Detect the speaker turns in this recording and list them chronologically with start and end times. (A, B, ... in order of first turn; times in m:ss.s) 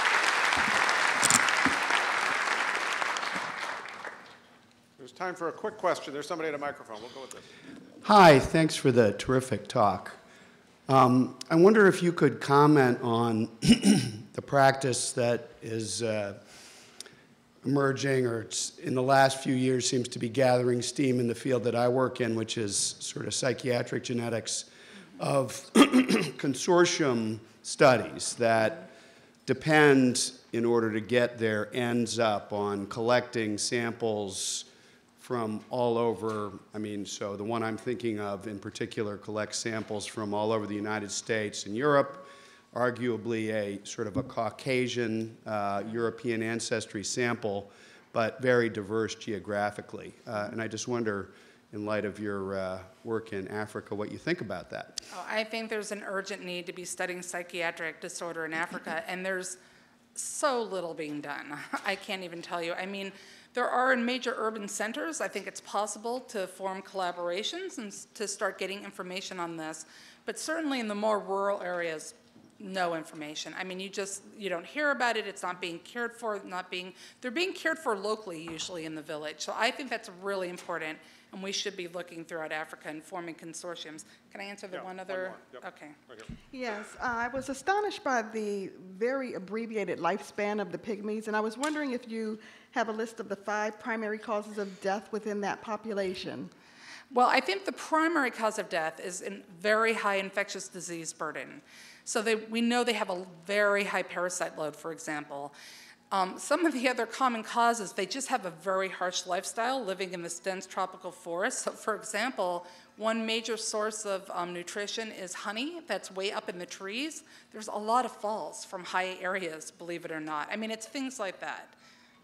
0:05.0-0:07.5 A
0:08.0-0:10.2 B
0:10.9-0:16.5 B
0:17.6-0:28.9 B
0:29.4-0:34.7 B
0:35.2-0:55.0 B
0:55.1-0:59.6 C
1:00.1-1:26.0 C
1:24.7-1:26.3 A
1:26.5-1:36.5 D
1:37.1-1:45.5 C
1:46.1-2:01.8 C